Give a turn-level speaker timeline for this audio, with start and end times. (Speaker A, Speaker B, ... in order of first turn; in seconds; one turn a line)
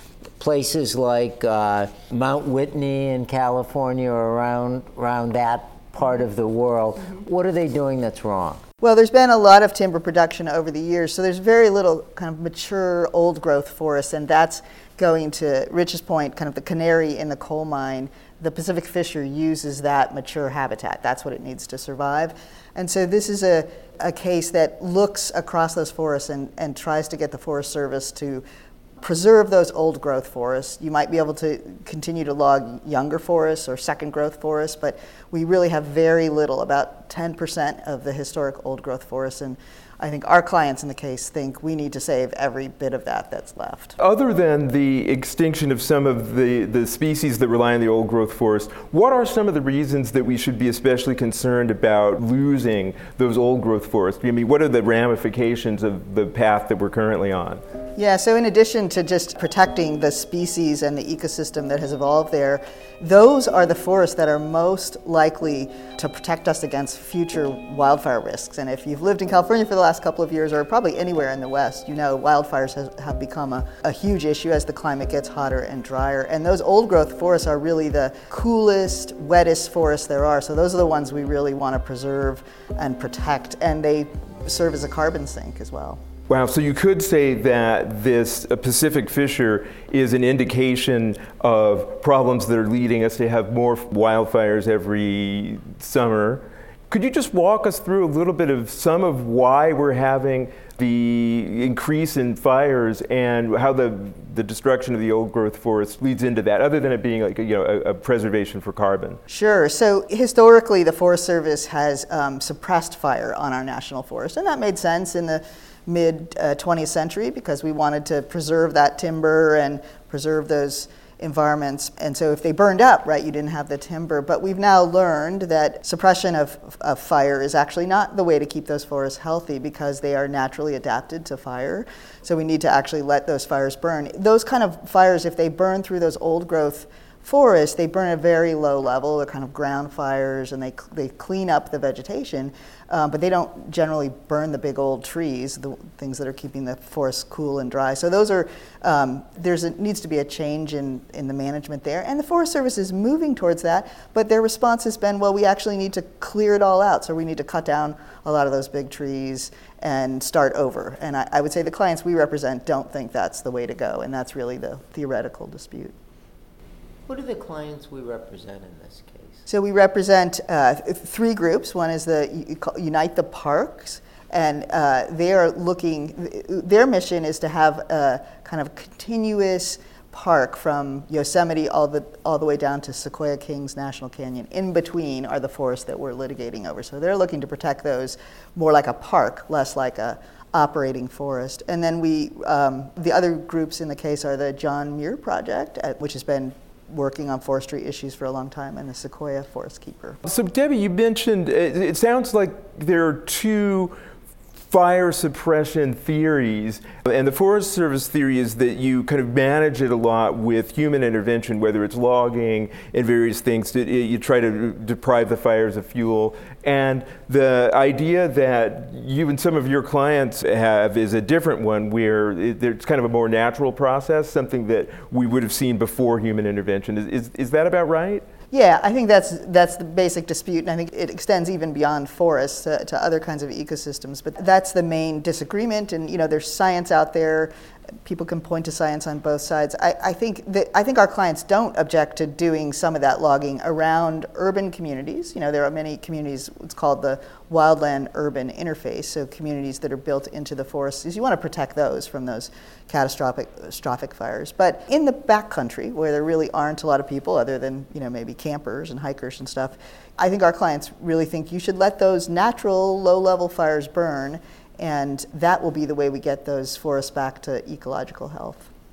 Speaker A: 0.4-8.6
Speaker B: 8.8-28.4
Speaker B: 29.0-44.0
Speaker C: 44.0-57.6
Speaker B: 58.0-86.0
Speaker C: 86.3-109.2
Speaker B: 109.3-165.9
Speaker A: 167.1-169.5
Speaker B: 169.5-200.2
Speaker C: 200.2-203.9
Speaker C: 204.7-228.2
Speaker B: 228.5-237.5
Speaker B: 238.0-268.7